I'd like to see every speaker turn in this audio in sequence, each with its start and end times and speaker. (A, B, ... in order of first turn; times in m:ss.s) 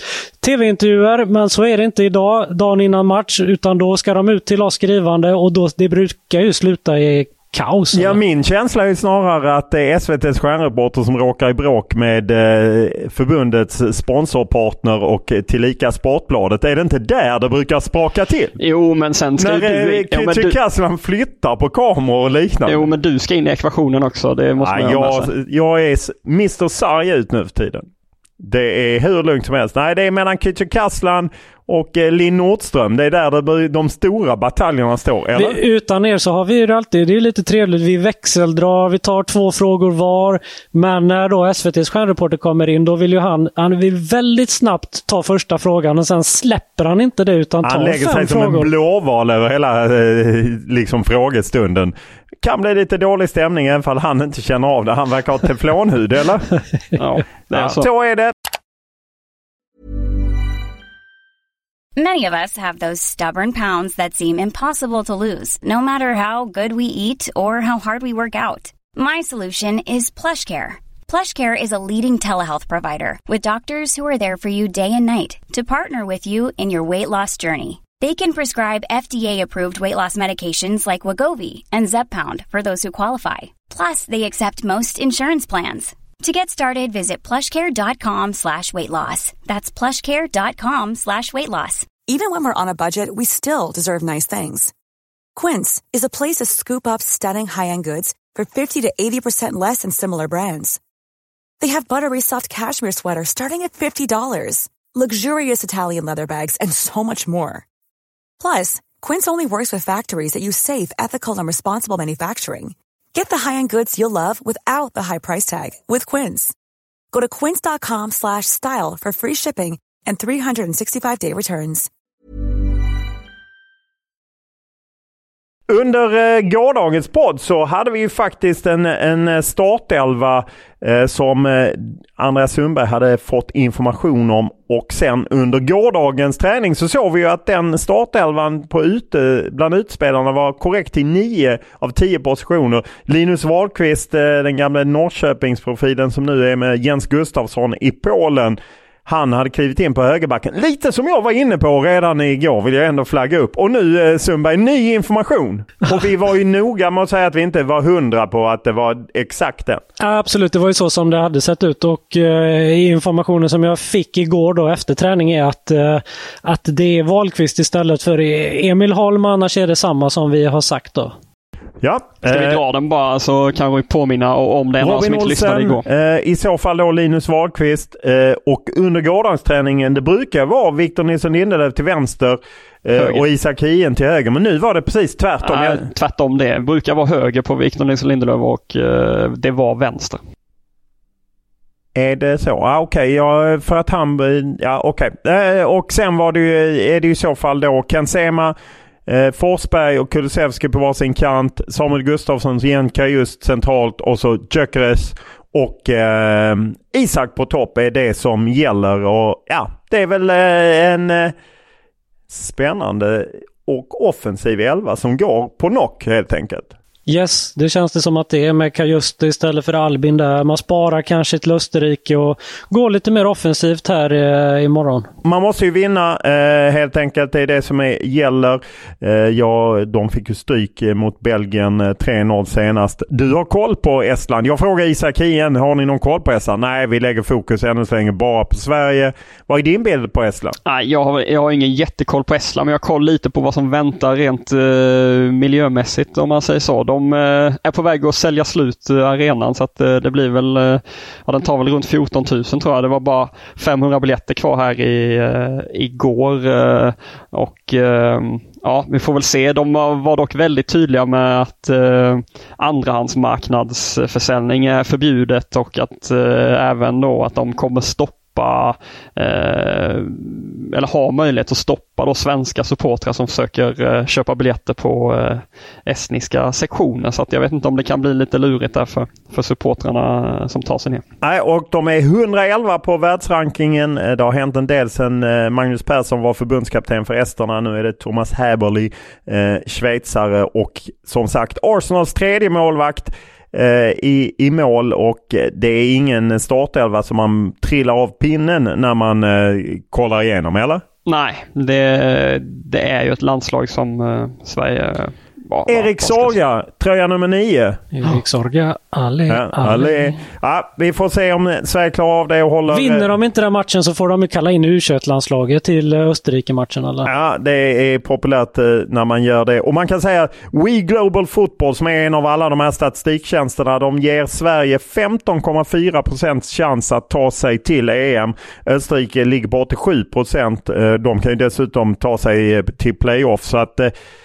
0:00.4-0:08.2 A
0:07.9-0:18.5 B
0:18.6-0:20.6 C
0:19.4-0:22.9 B
0:22.7-0:25.3 C
0:24.6-0:27.8 B
0:28.4-0:35.6 B
0:35.3-0:48.7 A
0:47.6-0:56.5 B
0:57.0-0:57.9 C
0:57.5-0:58.3 B
1:02.0-1:31.9 D
1:32.1-1:34.7 E
1:35.4-1:40.8 E
1:41.6-1:47.6 E
1:48.4-1:56.5 E
1:57.1-2:01.9 E
2:05.7-2:39.8 B
2:40.0-2:51.1 A
2:51.8-2:52.6 B
2:52.2-2:55.8 C
2:54.8-3:05.8 B
3:02.9-3:03.2 C
3:05.4-3:10.2 C
3:11.9-3:18.5 B
3:19.1-3:31.3 B
3:32.3-3:36.7 B
3:37.1-3:45.1 A
3:45.2-4:00.6 B
4:00.6-4:41.0 C
4:41.2-5:00.8 B
5:01.0-5:06.4 C
5:05.7-5:07.8 B
5:07.9-5:10.1 A
5:09.3-5:13.1 B
5:12.7-5:17.1 A
5:17.0-5:33.9 B